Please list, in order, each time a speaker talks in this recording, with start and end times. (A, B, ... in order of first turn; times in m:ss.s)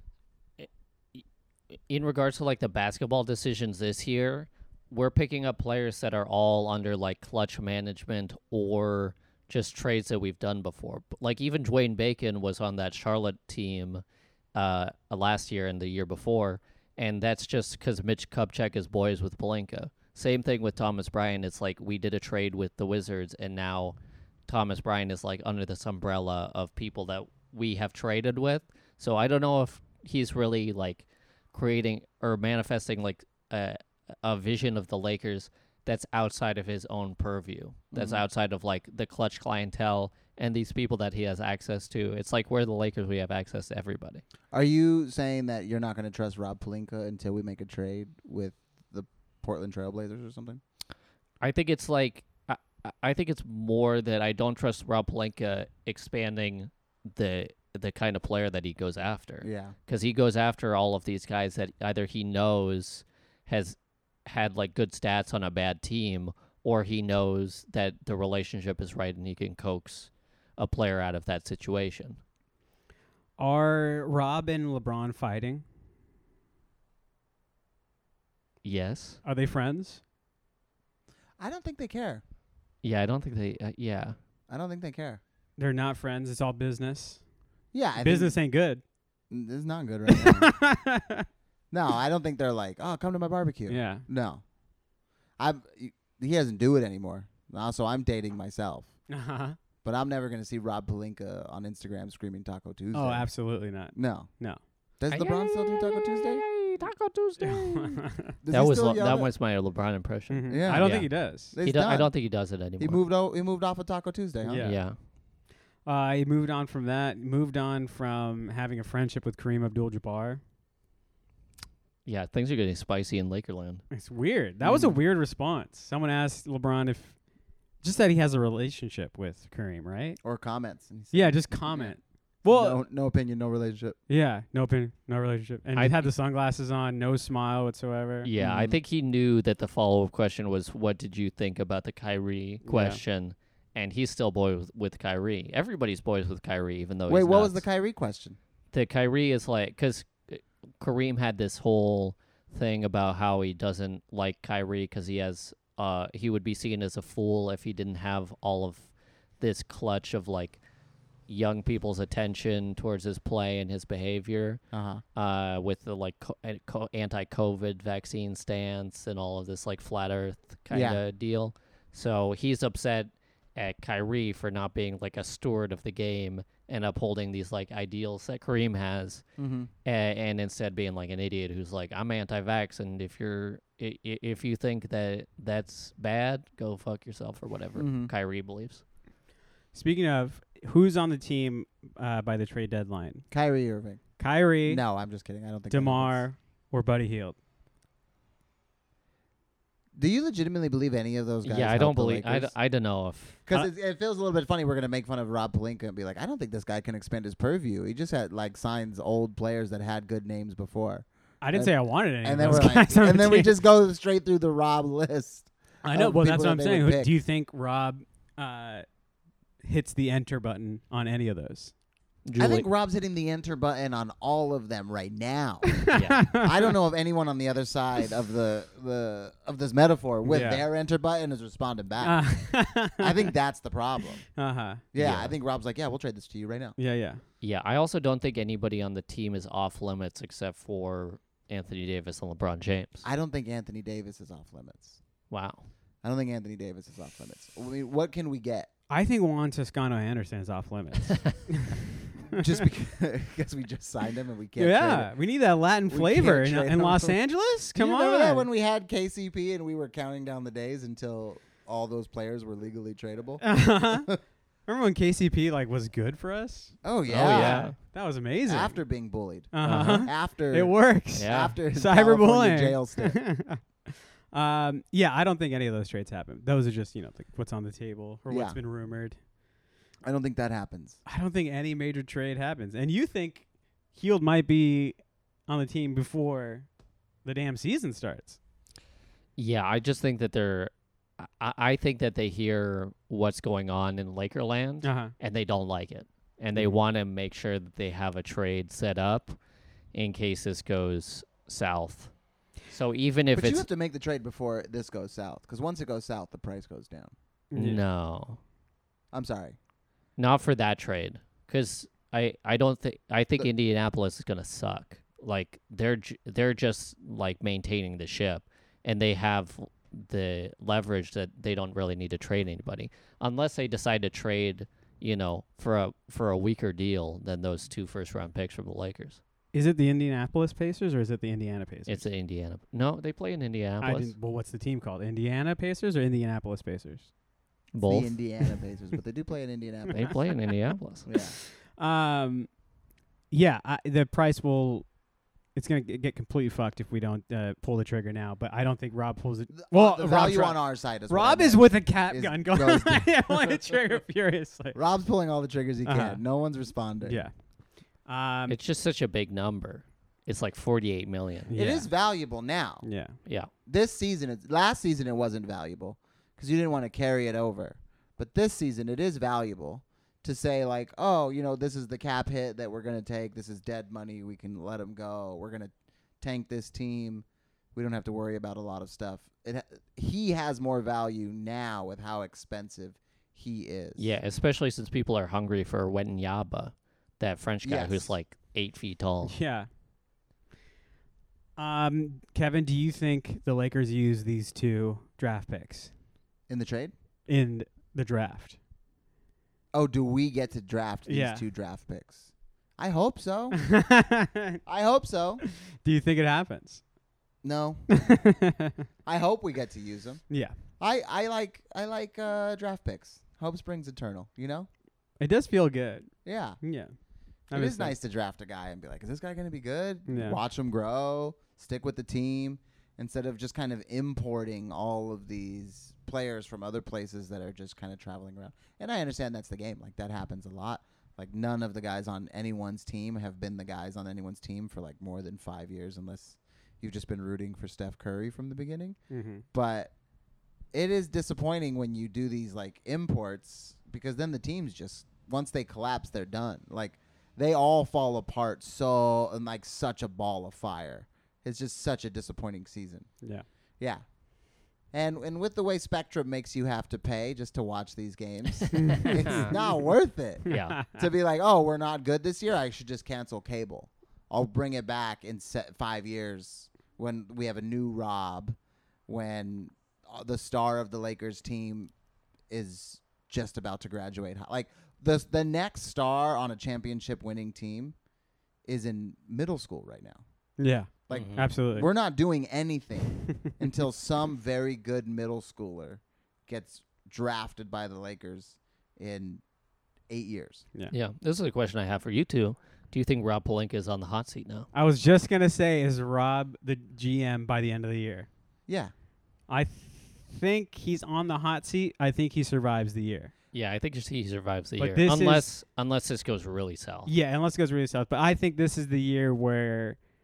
0:00.6-0:01.2 A
0:01.9-0:14.0 A
0:14.5-0:24.0 A
0:24.5-0:44.2 A
0:37.9-0:38.2 B
0:44.5-0:50.6 B
0:51.4-1:12.2 A
0:59.4-0:59.7 B
1:13.4-1:15.6 C
1:18.6-1:19.2 A
1:19.2-1:20.0 C
1:21.4-1:22.2 B
1:22.8-1:24.2 A
1:24.5-1:25.2 B
1:25.6-1:27.2 C
1:27.7-1:28.4 B
1:28.0-1:28.8 C
1:29.3-1:30.5 B
1:30.1-1:31.2 C
1:31.7-1:34.4 B
1:33.7-1:34.0 C
1:35.4-1:38.9 B
1:39.1-1:39.6 C
1:39.8-1:43.3 B
1:42.9-1:44.6 C
1:43.9-1:44.3 B
1:45.0-1:46.6 B
1:45.1-1:53.0 A
1:47.4-1:48.3 C
1:48.4-1:49.3 B
1:50.3-1:51.6 C
1:50.5-1:54.7 B
1:54.4-1:54.8 C
1:54.6-1:55.0 A
1:55.8-2:00.4 C
2:02.0-2:03.8 A
2:03.9-2:07.2 C
2:04.6-2:05.0 B
2:07.8-2:10.2 C
2:10.2-2:11.9 B
2:11.1-2:12.8 C
2:12.4-2:14.0 B
2:14.1-2:18.3 C
2:15.8-2:16.1 A
2:18.2-2:27.6 A
2:18.4-2:18.8 B
2:22.6-2:23.0 C
2:27.1-2:28.4 B
2:28.7-2:38.9 A
2:39.4-2:40.6 A
2:41.3-2:44.6 A
2:44.7-2:45.0 B
2:45.1-2:59.2 A
2:50.7-2:51.0 B
2:59.4-2:59.7 B
2:59.8-3:08.8 A
3:07.8-3:08.1 B
3:09.7-3:13.2 C
3:13.3-3:14.1 B
3:14.2-3:14.8 C
3:14.6-3:16.2 B
3:15.7-3:17.4 C
3:19.9-3:22.5 B
3:21.4-3:23.4 A
3:23.4-3:37.1 B
3:31.4-3:33.6 C
3:35.8-3:38.8 C
3:39.6-3:41.7 C
3:42.2-3:42.6 A
3:42.4-3:54.2 B
3:45.9-3:46.6 C
3:45.9-3:46.3 A
3:50.2-3:50.6 C
3:52.0-3:53.3 C
3:54.4-3:54.8 C
3:54.9-3:56.8 B
3:54.9-3:55.3 A
3:56.8-3:57.2 C
3:57.4-4:03.0 A
4:03.0-4:05.0 B
4:05.3-4:05.6 A
4:06.0-4:08.7 B
4:08.9-4:12.4 C
4:12.3-4:15.1 B
4:14.6-4:18.5 C
4:15.9-4:17.2 B
4:17.7-4:24.2 B
4:23.4-4:24.1 C
4:24.6-4:28.8 C
4:26.8-4:27.8 B
4:27.1-4:27.8 A
4:28.5-4:33.2 B
4:29.5-4:39.2 C
4:29.6-4:30.1 A
4:31.1-4:31.6 A
4:38.3-4:38.6 B
4:40.0-4:41.0 B
4:41.0-4:46.7 C
4:47.2-4:48.4 C
4:49.4-4:59.4 A
4:54.8-4:55.1 C
4:59.9-5:03.6 A
5:03.3-5:07.1 B
5:07.5-5:07.8 C
5:07.5-5:08.4 A
5:09.1-5:09.6 B
5:10.2-5:29.2 A
5:29.5-5:32.0 C
5:31.9-5:34.1 A
5:33.8-5:37.1 C
5:37.7-5:38.3 A
5:37.8-5:40.2 B
5:39.9-5:41.0 A
5:41.0-5:41.4 B
5:41.2-5:42.5 C
5:43.3-5:44.9 C
5:45.5-5:54.8 C
5:49.5-5:53.6 B
5:54.7-5:57.2 B
5:55.8-5:56.2 C
5:57.0-5:57.3 C
5:58.0-5:58.6 C
5:58.5-6:01.5 A
6:01.5-6:01.9 C
6:01.5-6:02.8 B
6:02.8-6:03.2 C
6:03.6-6:24.1 B
6:24.0-6:29.4 A
6:27.6-6:28.2 B
6:29.2-6:29.7 C
6:31.6-6:35.9 C
6:36.5-6:36.9 B
6:37.3-6:38.6 C
6:39.7-6:43.7 B
6:41.0-6:41.4 C
6:43.6-6:44.6 C
6:44.6-6:45.4 B
6:45.8-6:46.8 C
6:47.4-6:48.3 B
6:47.9-6:48.8 C
6:49.0-6:54.7 B
6:50.3-6:50.6 C
6:55.2-6:56.9 C
6:56.2-6:56.6 B
6:57.5-6:58.0 C
6:57.5-7:19.0 B
7:00.1-7:00.4 C
7:19.1-7:19.4 C
7:19.5-7:19.9 B
7:20.7-7:33.1 B
7:34.9-7:51.9 B
7:38.7-7:39.5 C
7:39.0-7:39.5 A
7:40.4-7:40.8 C
7:40.5-7:40.8 A
7:52.5-7:58.0 B
7:58.6-8:00.2 B
8:00.6-8:01.9 C
8:01.1-8:09.4 B
8:01.1-8:01.5 A
8:10.1-8:10.6 B
8:10.9-8:14.7 A
8:14.7-8:18.3 C
8:18.7-8:18.9 B
8:19.5-8:23.3 C
8:23.5-8:27.1 A
8:24.8-8:25.5 C
8:27.0-8:30.0 C